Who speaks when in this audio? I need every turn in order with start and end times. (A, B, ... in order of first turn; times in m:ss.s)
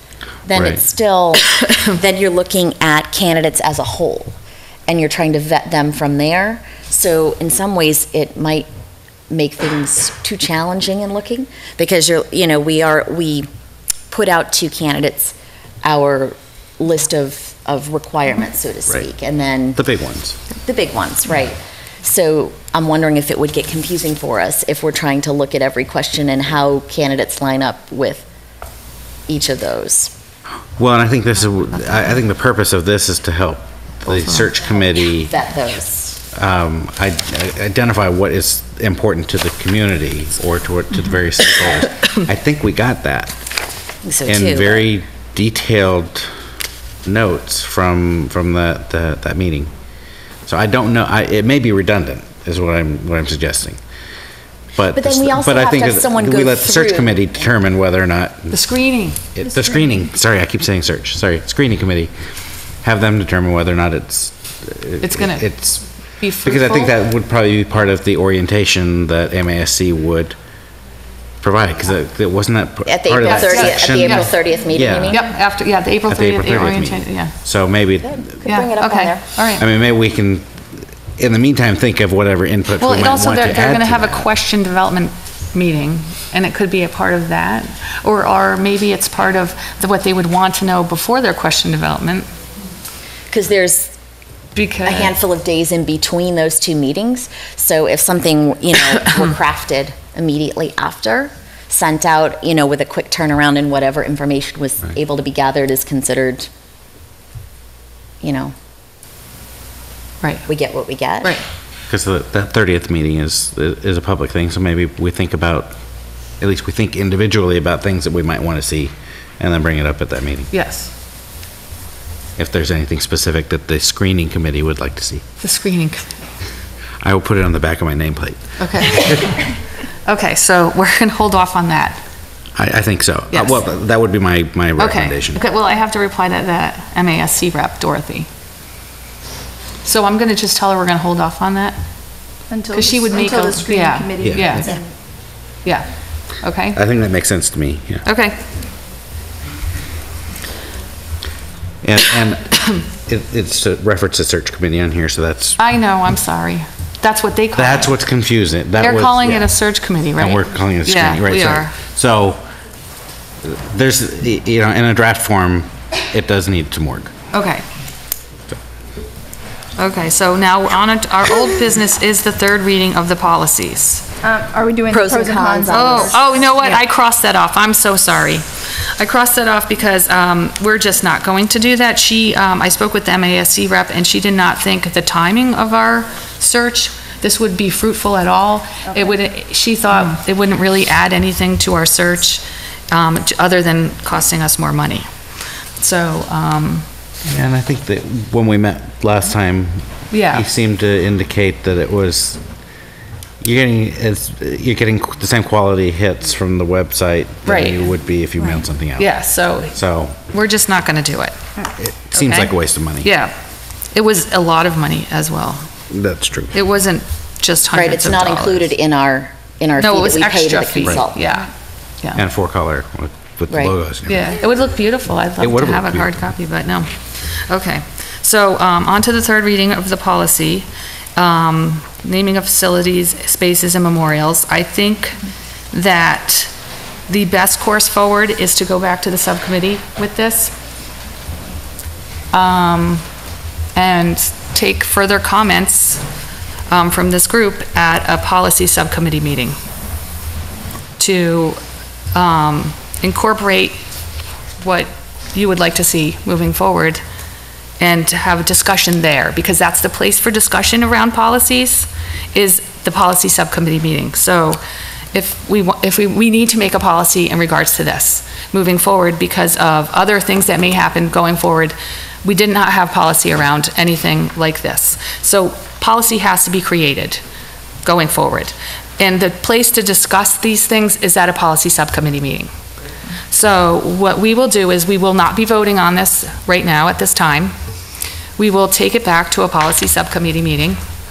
0:00.4-0:08.7 A
0:09.3-0:13.5 A
0:14.1-0:19.8 A
0:19.8-0:20.4 B
0:20.6-0:28.2 A
0:29.3-0:30.1 A
0:30.8-0:35.3 B
0:34.5-0:36.2 A
0:36.3-0:43.3 B
0:44.0-0:44.9 A
0:44.2-0:46.3 B
0:47.0-0:49.7 B
0:50.4-0:53.8 B
0:54.8-0:58.6 B
0:54.9-0:57.4 A
0:58.5-0:59.2 C
0:59.3-1:02.1 B
1:02.8-1:05.8 B
1:05.0-1:05.5 C
1:06.2-1:06.9 C
1:06.4-1:10.4 B
1:11.4-1:15.2 B
1:12.9-1:15.2 A
1:13.2-1:14.3 C
1:15.1-1:17.3 C
1:16.1-1:18.2 B
1:18.0-1:19.2 A
1:18.4-1:19.6 C
1:19.6-1:20.5 B
1:21.2-1:24.3 B
1:22.8-1:32.3 C
1:33.3-1:33.9 A
1:34.5-1:35.1 C
1:34.8-1:46.5 A
1:48.2-1:48.5 A
1:50.4-1:51.3 A
1:51.9-1:55.7 B
1:56.4-2:00.5 B
2:00.5-2:00.9 C
2:02.4-2:05.2 B
2:05.4-2:06.3 C
2:07.0-2:09.2 B
2:08.6-2:09.5 C
2:10.0-2:12.0 C
2:12.6-2:15.4 B
2:13.3-2:13.6 C
2:14.8-2:18.3 C
2:19.8-2:21.8 C
2:22.5-2:24.9 D
2:22.7-2:24.8 C
2:24.2-2:24.6 B
2:25.6-2:25.9 C
2:26.4-2:26.8 C
2:26.7-2:28.0 B
2:28.0-2:28.4 C
2:31.8-2:35.6 B
2:35.6-2:38.0 C
2:37.5-2:39.5 B
2:38.8-2:41.8 C
2:40.2-2:42.4 B
2:43.4-2:47.1 B
2:47.3-2:47.6 C
2:49.8-2:54.1 C
2:54.2-2:56.8 D
2:54.9-2:56.3 A
2:55.7-3:15.1 C
3:15.8-3:16.8 C
3:17.2-3:22.4 B
3:20.1-3:20.5 C
3:23.4-3:29.1 B
3:27.4-3:27.8 C
3:29.0-3:29.7 C
3:29.7-3:30.2 B
3:30.3-3:31.4 C
3:31.8-3:33.1 B
3:32.1-3:33.3 C
3:33.9-3:35.7 C
3:35.9-3:36.5 B
3:36.5-3:38.7 C
3:37.7-3:41.3 A
3:39.8-3:41.5 C
3:42.1-3:44.4 B
3:44.1-3:55.2 C
3:45.4-3:46.2 B
3:55.7-3:56.5 C
3:57.1-4:00.5 C
4:02.3-4:03.0 C
4:03.7-4:06.0 C
4:06.7-4:09.6 C
4:11.0-4:11.6 C
4:12.1-4:13.8 C
4:14.6-4:17.0 C
4:17.8-4:24.6 C
4:25.1-4:37.2 C
4:37.8-4:42.5 C
4:43.3-4:47.5 C
4:48.4-4:50.8 C